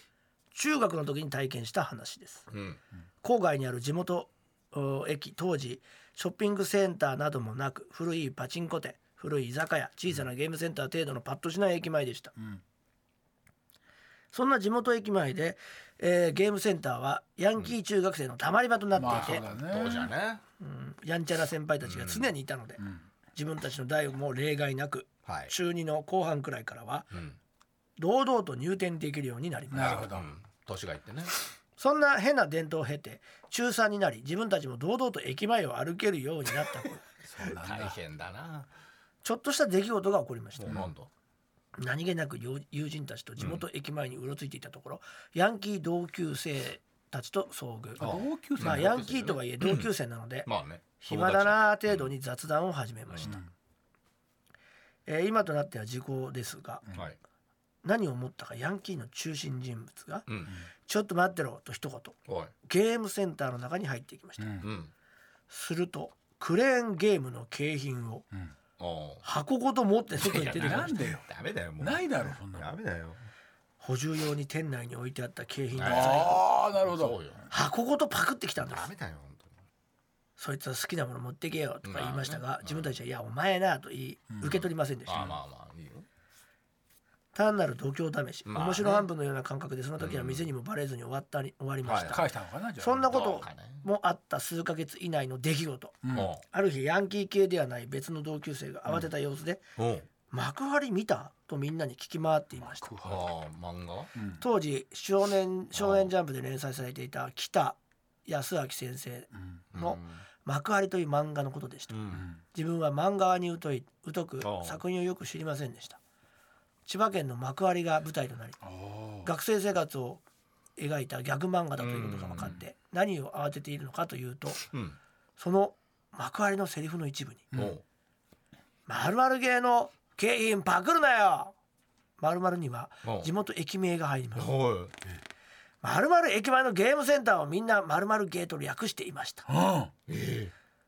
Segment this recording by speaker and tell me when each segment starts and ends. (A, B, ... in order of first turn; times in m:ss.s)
0:00.5-0:02.5 A
0:02.5-0:02.8 B
0:03.2-0:12.3 A
0:14.3-0:19.4 A
0:18.9-0:20.1 C
0:19.0-0:20.4 B
0:20.6-0:22.8 A
0:21.8-0:22.3 B
0:23.3-0:27.1 A
0:25.2-0:25.5 B
0:28.0-0:30.1 A
0:29.7-0:30.3 C
0:29.8-0:31.3 B
0:31.8-0:37.0 A
0:37.3-0:37.9 C
0:37.4-0:38.7 B
0:39.2-0:40.8 A
0:40.6-0:41.1 B
0:41.8-0:50.5 A
0:43.4-0:43.6 B
0:48.0-0:49.1 C
0:48.0-0:49.9 B
0:50.4-0:52.1 B
0:51.0-0:53.4 A
0:53.1-0:53.3 B
0:55.0-0:56.8 A
0:57.8-1:00.3 A
1:00.3-1:00.5 B
1:00.8-1:04.6 A
1:02.3-1:02.5 B
1:04.4-1:04.7 C
1:04.6-1:04.9 B
1:05.5-1:08.2 A
1:08.8-1:09.2 B
1:09.2-1:11.0 A
1:10.2-1:13.2 B
1:10.2-1:11.3 C
1:11.8-1:12.7 C
1:13.8-1:16.4 A
1:15.7-1:17.4 B
1:15.8-1:17.2 C
1:17.5-1:18.9 A
1:18.6-1:19.5 B
1:20.4-1:25.3 A
1:21.8-1:22.9 B
1:25.1-1:26.1 B
1:27.3-1:39.6 A
1:28.4-1:29.1 B
1:30.0-1:30.4 B
1:31.8-1:32.2 B
1:32.1-1:33.0 C
1:33.1-1:33.8 B
1:36.0-1:36.3 C
1:36.1-1:36.4 B
1:39.8-1:40.1 B
1:40.3-1:42.9 A
1:42.7-1:43.3 C
1:43.0-1:44.1 B
1:44.2-1:44.4 C
1:44.4-1:52.0 A
1:45.7-1:46.1 B
1:49.7-1:50.2 B
1:51.9-1:52.2 B
1:52.1-1:52.4 C
1:52.5-1:56.0 A
1:54.4-1:54.8 B
1:56.8-1:58.6 A
1:58.6-1:59.3 C
1:59.2-2:00.2 A
2:00.8-2:04.6 A
2:01.8-2:02.6 B
2:04.7-2:05.0 B
2:05.4-2:07.5 A
2:07.5-2:07.8 B
2:08.9-2:11.5 A
2:12.2-2:14.5 A
2:13.0-2:13.3 B
2:14.4-2:14.9 B
2:15.8-2:19.5 A
2:19.5-2:19.9 C
2:20.1-2:20.5 B